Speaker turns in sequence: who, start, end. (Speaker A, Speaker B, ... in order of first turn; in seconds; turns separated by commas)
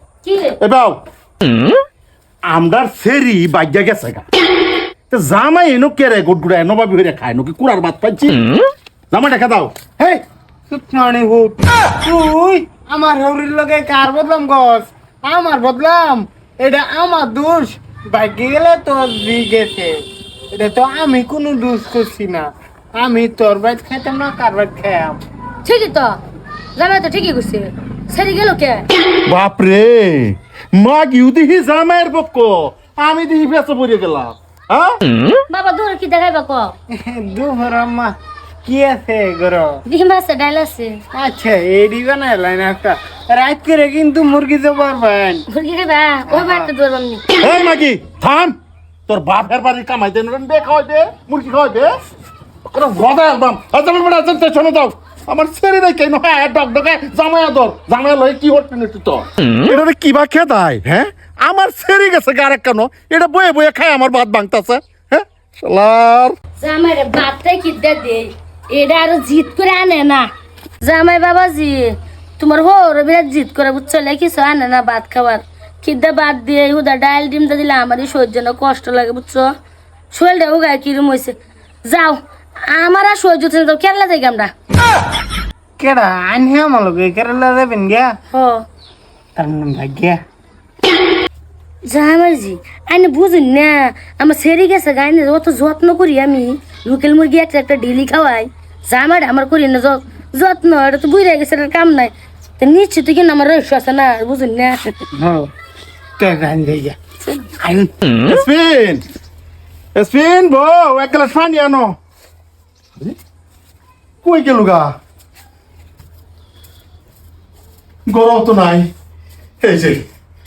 Speaker A: 0.2-0.6, Speaker B: 0.6-1.0, Speaker B: 2.5-4.2, Speaker B: 5.1-8.4, Speaker B: 9.1-9.9, Speaker C: 10.7-20.0, Speaker C: 20.5-25.2, Speaker A: 25.6-26.2, Speaker A: 26.8-28.9, Speaker B: 29.2-35.0, Speaker A: 35.5-36.8, Speaker C: 37.0-39.8, Speaker A: 39.9-41.0, Speaker C: 41.1-45.5, Speaker A: 45.5-47.3, Speaker C: 46.3-46.7, Speaker B: 47.4-48.5, Speaker B: 49.1-51.9, Speaker B: 52.7-66.4, Speaker A: 66.6-70.3, Speaker A: 70.8-79.5, Speaker A: 80.1-84.5, Speaker C: 85.8-88.2, Speaker A: 88.3-88.7, Speaker C: 89.4-90.2, Speaker A: 91.9-105.0, Speaker C: 105.2-105.5, Speaker C: 106.2-107.0, Speaker C: 107.5-107.9, Speaker B: 108.2-109.0, Speaker B: 110.0-112.0, Speaker B: 114.2-115.0, Speaker B: 118.1-118.9, Speaker B: 119.6-120.0